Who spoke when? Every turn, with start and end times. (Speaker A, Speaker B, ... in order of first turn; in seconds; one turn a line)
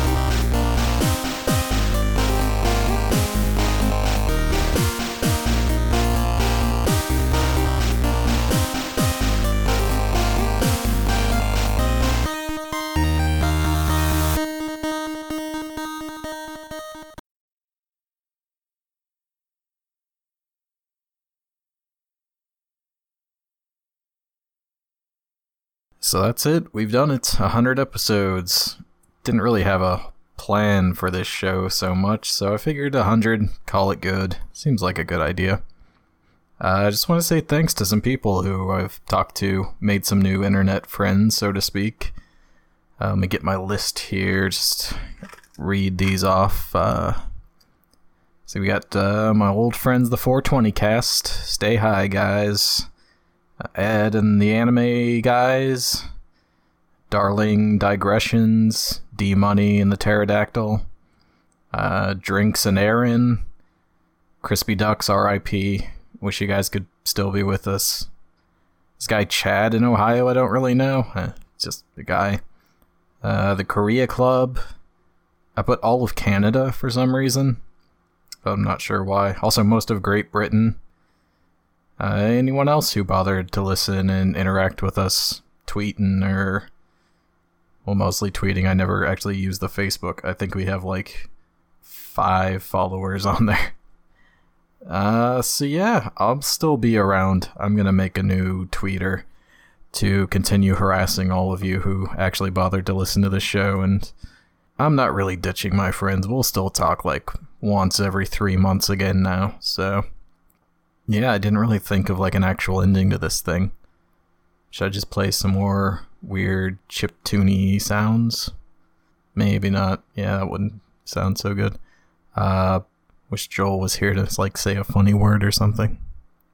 Speaker A: 26.0-35.6
Speaker A: 36.6-42.1
Speaker A: 43.0-45.0
Speaker A: 45.6-47.2
Speaker A: 48.5-52.9
Speaker A: 53.6-56.0
Speaker A: 57.1-60.9
Speaker A: 61.7-63.4
Speaker A: 64.4-68.1
Speaker A: 69.0-72.4
Speaker A: 73.2-74.6
Speaker A: 75.6-77.6
Speaker A: 78.4-80.8
Speaker A: 82.0-86.7
Speaker A: 87.8-91.3
Speaker A: 91.8-93.7
Speaker A: 94.8-99.2
Speaker A: 99.9-104.1
Speaker A: 104.8-110.0
Speaker A: 111.1-113.7
Speaker A: 114.7-118.5
Speaker A: 119.3-121.8
Speaker A: 122.3-126.0